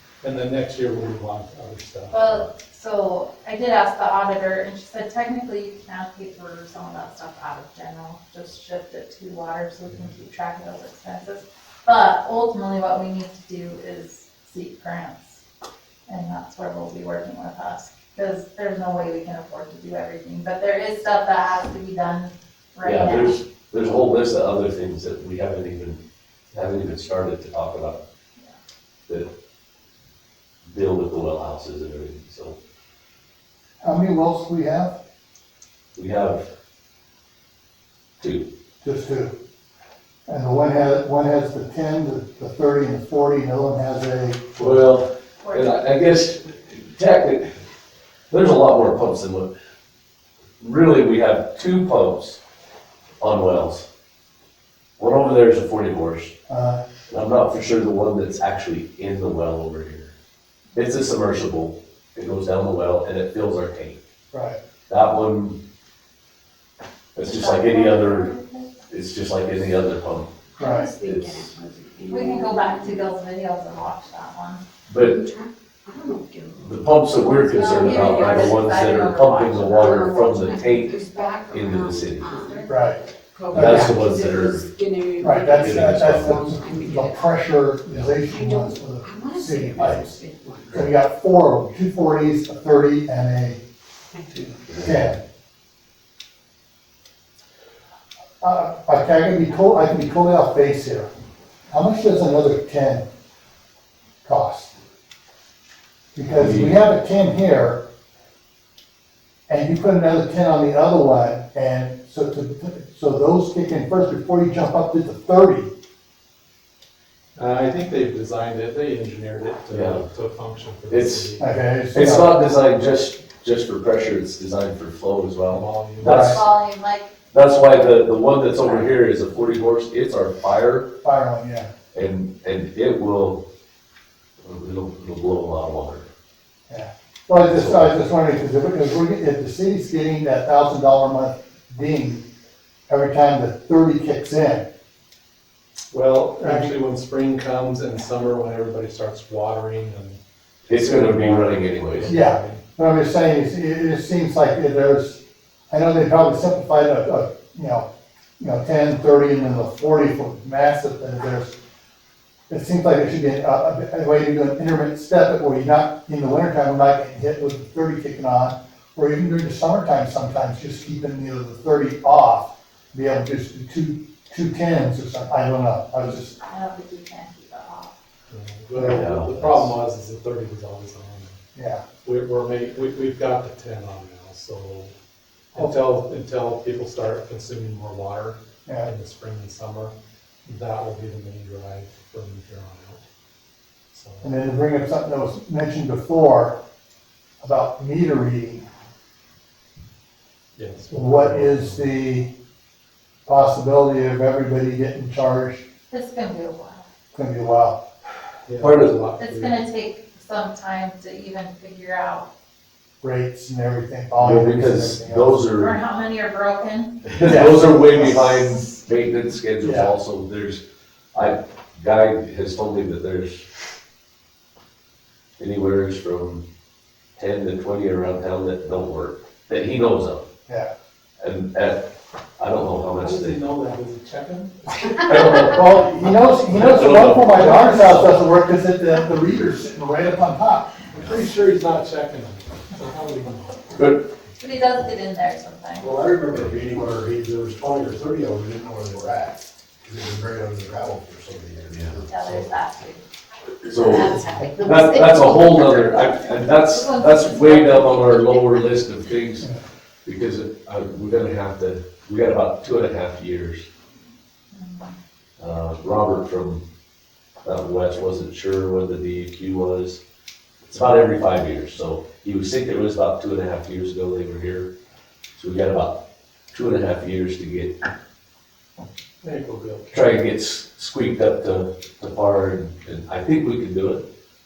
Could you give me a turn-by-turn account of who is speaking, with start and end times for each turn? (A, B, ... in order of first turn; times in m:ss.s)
0:00.2-0:02.5 A
0:02.1-0:15.4 B
0:16.1-0:23.4 B
0:22.8-0:26.0 C
0:26.5-0:28.0 C
0:30.7-0:32.6 C
0:33.8-0:35.0 D
0:36.0-0:36.5 C
0:38.2-0:38.5 C
0:38.8-0:39.3 D
0:40.3-0:44.8 D
0:44.6-0:47.5 C
0:45.4-0:45.9 B
0:48.3-0:49.5 C
0:50.6-0:52.4 C
0:53.2-0:53.9 C
0:55.0-0:56.3 C
0:56.5-0:56.8 D
0:57.1-1:00.1 C
1:00.8-1:04.0 C
1:04.3-1:04.6 D
1:04.9-1:05.6 C
1:07.2-1:08.3 C
1:07.2-1:08.9 B
1:08.9-1:10.4 C
1:10.5-1:13.1 E
1:10.6-1:10.9 D
1:11.0-1:11.5 C
1:12.1-1:14.6 B
1:14.9-1:15.2 C
1:15.0-1:19.0 E
1:16.6-1:22.3 C
1:17.5-1:20.2 B
1:19.6-1:27.4 E
1:22.3-1:22.8 B
1:22.7-1:23.0 D
1:23.5-1:24.7 C
1:23.5-1:24.0 D
1:25.2-1:30.2 D
1:25.6-1:26.4 C
1:27.9-1:30.9 E
1:30.7-1:33.6 D
1:34.1-1:34.4 E
1:34.7-1:35.0 C
1:34.8-1:35.2 D
1:38.4-1:41.1 D
1:41.7-1:43.0 D
1:44.2-1:44.7 D
1:46.2-1:47.8 D
1:46.3-1:46.8 C
1:49.5-1:55.7 D
1:57.4-2:01.6 A
1:59.7-2:00.1 C
2:00.9-2:01.3 C
2:01.4-2:02.4 D
2:02.0-2:06.4 C
2:05.5-2:06.4 A
2:06.0-2:06.4 D
2:06.1-2:07.1 B
2:07.3-2:10.9 C
2:11.0-2:11.7 D
2:11.9-2:13.4 C
2:14.4-2:16.1 C
2:16.7-2:22.2 D
2:17.5-2:17.9 C
2:22.9-2:24.7 D
2:25.9-2:32.6 A
2:26.4-2:26.8 D
2:30.7-2:32.1 C
2:32.1-2:37.9 D
2:38.4-2:41.6 D
2:42.5-2:56.4 D
2:56.1-2:57.9 B
2:58.3-3:01.4 A
2:58.8-2:59.7 C
3:01.6-3:01.8 D
3:02.0-3:04.9 A
3:05.5-3:09.9 A
3:10.5-3:13.0 A
3:13.9-3:14.3 A
3:14.2-3:16.6 D
3:17.4-3:18.6 D
3:20.6-3:21.9 A
3:20.9-3:22.3 D
3:23.3-3:25.6 D
3:25.9-3:26.8 B
3:27.1-3:27.8 D
3:28.5-3:29.6 A
3:28.6-3:28.9 C
3:29.2-3:32.3 B
3:33.0-3:35.4 D
3:34.2-3:35.8 C
3:35.5-3:37.2 B
3:37.1-3:40.6 C
3:37.2-3:38.5 D
3:39.6-3:39.9 D
3:41.2-3:43.5 C
3:45.4-3:46.4 C
3:47.2-3:50.2 C
3:51.2-3:51.8 C
3:52.4-3:53.4 C
3:53.0-3:55.8 A
3:55.1-4:00.7 D
3:55.2-3:55.6 C
3:56.5-3:58.0 C
3:56.9-3:58.1 A
4:00.9-4:03.9 A
4:03.8-4:04.0 C
4:04.4-4:05.9 B
4:05.8-4:12.5 F
4:12.0-4:13.0 B
4:13.7-4:18.7 B
4:13.7-4:19.5 C
4:20.0-4:23.7 C
4:24.5-4:24.9 B
4:25.4-4:26.6 C
4:27.4-4:30.0 C
4:30.7-4:34.7 C
4:35.4-4:36.0 C
4:36.5-4:37.8 C
4:39.2-4:40.1 A
4:39.9-4:44.0 C